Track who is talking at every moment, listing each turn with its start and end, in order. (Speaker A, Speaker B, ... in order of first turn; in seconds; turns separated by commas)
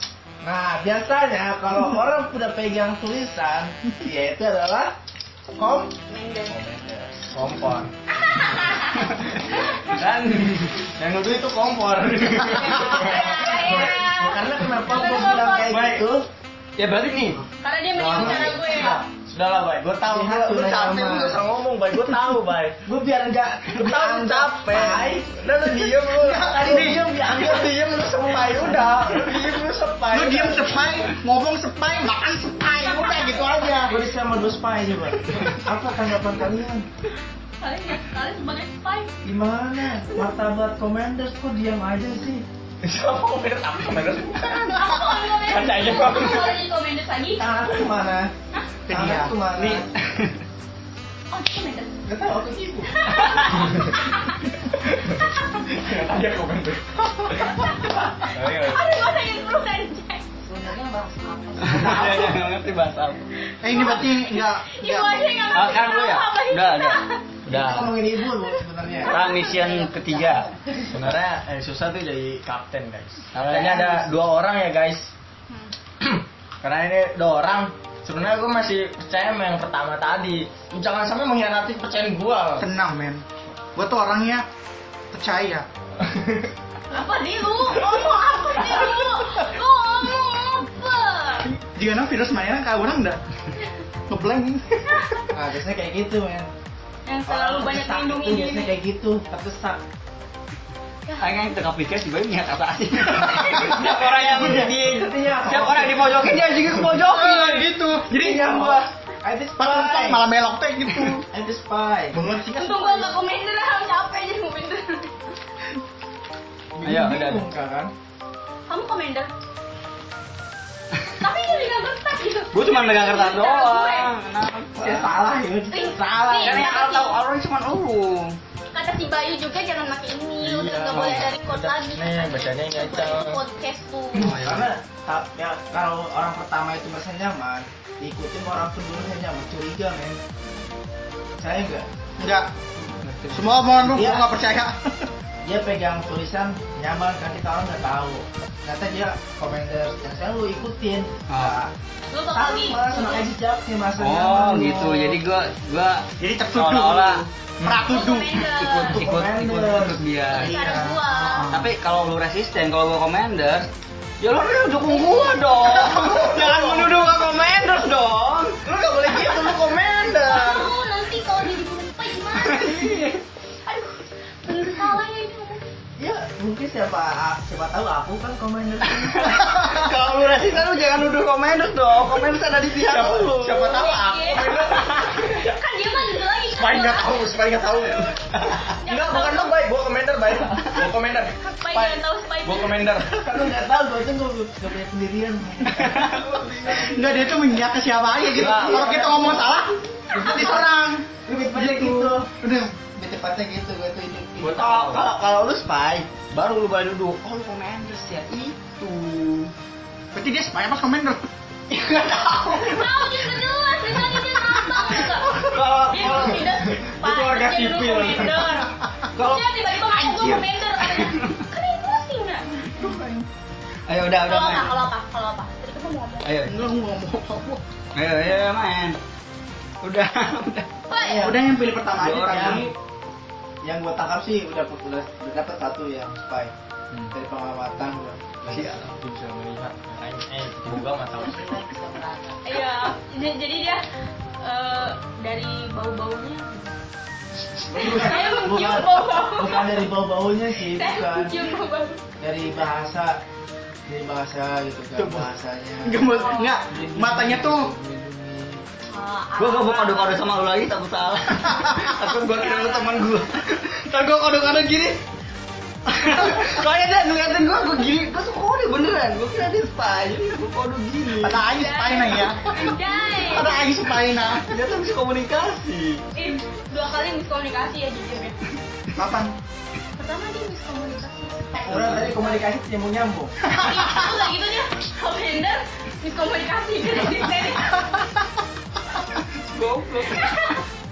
Speaker A: 0.4-4.9, Speaker A: 5.6-5.9, Speaker B: 6.1-6.6, Speaker C: 6.5-7.9, Speaker A: 6.7-7.1, Speaker B: 8.1-9.2, Speaker C: 9.5-14.8, Speaker B: 12.5-15.9, Speaker A: 13.0-16.3, Speaker C: 15.7-16.0, Speaker D: 16.8-17.4, Speaker B: 17.6-19.0, Speaker A: 17.9-19.0, Speaker C: 18.1-18.6, Speaker C: 19.2-22.8, Speaker A: 20.0-21.4, Speaker A: 22.8-25.6, Speaker C: 23.7-30.7, Speaker A: 26.2-29.4, Speaker E: 26.2-27.0, Speaker E: 30.1-34.0, Speaker B: 32.8-33.6, Speaker A: 33.8-36.9, Speaker B: 37.6-39.1, Speaker A: 39.2-42.5, Speaker C: 42.8-46.6, Speaker B: 44.4-47.5, Speaker A: 47.3-48.3, Speaker E: 48.9-49.4, Speaker A: 48.9-49.9, Speaker D: 49.6-50.4, Speaker B: 51.3-52.0, Speaker A: 52.0-52.9, Speaker B: 52.9-54.4, Speaker D: 53.2-53.6, Speaker C: 53.6-53.9, Speaker C: 54.9-57.7, Speaker B: 57.4-60.2, Speaker C: 58.3-58.8, Speaker A: 60.5-62.3, Speaker D: 61.6-63.2, Speaker E: 63.6-65.5, Speaker B: 63.6-67.2, Speaker D: 65.5-67.9, Speaker A: 67.5-69.5, Speaker C: 67.5-67.9, Speaker B: 68.2-68.6, Speaker D: 69.0-70.5, Speaker A: 70.6-70.9, Speaker C: 70.9-75.1, Speaker D: 73.5-74.0, Speaker C: 76.0-82.7, Speaker E: 82.6-84.4, Speaker E: 85.1-85.7, Speaker C: 86.0-86.5, Speaker B: 86.9-91.5, Speaker E: 91.7-93.2, Speaker E: 94.1-95.0, Speaker A: 95.3-96.5, Speaker B: 97.0-98.7, Speaker A: 97.2-99.8, Speaker D: 101.2-107.7, Speaker A: 104.1-106.7, Speaker E: 107.0-108.8, Speaker A: 108.1-110.2, Speaker E: 109.6-111.2, Speaker A: 111.2-112.2, Speaker E: 112.1-113.2, Speaker B: 112.5-115.1, Speaker A: 116.7-117.9, Speaker D: 116.8-117.4, Speaker B: 118.7-119.3, Speaker B: 121.2-124.1, Speaker D: 122.5-125.1, Speaker A: 124.7-126.7, Speaker B: 125.7-127.2, Speaker D: 126.3-128.4, Speaker B: 128.7-134.4, Speaker C: 130.4-133.4, Speaker A: 134.2-140.2, Speaker D: 134.2-134.7, Speaker A: 141.4-141.9, Speaker E: 142.2-142.5, Speaker D: 143.0-143.7, Speaker E: 143.3-145.1, Speaker A: 143.8-144.3, Speaker A: 145.4-151.7, Speaker D: 151.3-151.6, Speaker B: 152.1-153.3, Speaker A: 152.3-155.2, Speaker D: 154.0-157.2, Speaker E: 156.2-158.4, Speaker B: 157.8-159.0, Speaker D: 158.6-160.6, Speaker A: 158.7-160.1, Speaker B: 160.3-161.4, Speaker E: 160.4-161.7, Speaker D: 161.5-163.7, Speaker D: 164.2-168.6, Speaker B: 164.8-166.1, Speaker A: 168.7-170.4, Speaker C: 168.7-170.7, Speaker B: 170.1-172.9, Speaker D: 172.4-173.2, Speaker B: 173.7-175.6, Speaker A: 176.0-179.5, Speaker D: 179.0-183.7, Speaker C: 182.8-185.6, Speaker B: 183.6-187.2, Speaker C: 186.5-193.2, Speaker B: 188.8-189.6, Speaker B: 191.6-193.0, Speaker A: 193.1-196.8, Speaker D: 195.7-196.7, Speaker C: 196.3-196.9, Speaker E: 196.8-201.1, Speaker C: 198.3-199.3, Speaker A: 198.4-199.4, Speaker A: 200.1-200.7, Speaker A: 201.2-202.3, Speaker E: 202.3-202.8, Speaker A: 202.9-205.0, Speaker D: 204.4-209.5, Speaker C: 204.6-204.9, Speaker E: 210.1-211.2, Speaker D: 211.7-212.9, Speaker B: 212.5-222.7, Speaker D: 215.3-216.4, Speaker C: 216.7-218.6, Speaker D: 219.2-221.4, Speaker A: 222.8-223.1, Speaker D: 223.9-224.8, Speaker B: 224.2-226.3, Speaker D: 226.2-226.5, Speaker E: 226.4-227.6, Speaker D: 227.9-229.0, Speaker D: 229.8-230.7, Speaker B: 230.9-231.3, Speaker A: 230.9-231.4, Speaker E: 231.1-232.7, Speaker D: 231.9-232.7, Speaker A: 232.1-232.7, Speaker A: 233.6-236.5, Speaker A: 237.1-238.7, Speaker D: 238.5-238.9, Speaker C: 238.5-241.7, Speaker A: 241.7-242.4, Speaker B: 242.4-243.8, Speaker B: 244.4-246.7, Speaker A: 247.7-251.4, Speaker B: 247.8-249.8, Speaker B: 250.7-252.0, Speaker A: 252.2-253.2, Speaker A: 253.8-256.1, Speaker E: 255.8-257.7, Speaker B: 256.1-256.5, Speaker A: 256.7-258.6, Speaker B: 258.9-260.2, Speaker D: 259.4-265.0, Speaker E: 261.7-261.9, Speaker B: 262.3-263.2, Speaker D: 265.9-271.4, Speaker E: 271.2-274.5, Speaker B: 271.4-273.6, Speaker D: 274.4-276.0, Speaker B: 276.1-278.4, Speaker E: 278.9-279.3, Speaker B: 279.9-282.3, Speaker A: 281.6-283.3, Speaker E: 283.4-284.1, Speaker B: 283.6-287.9, Speaker D: 289.4-290.5, Speaker B: 290.1-290.6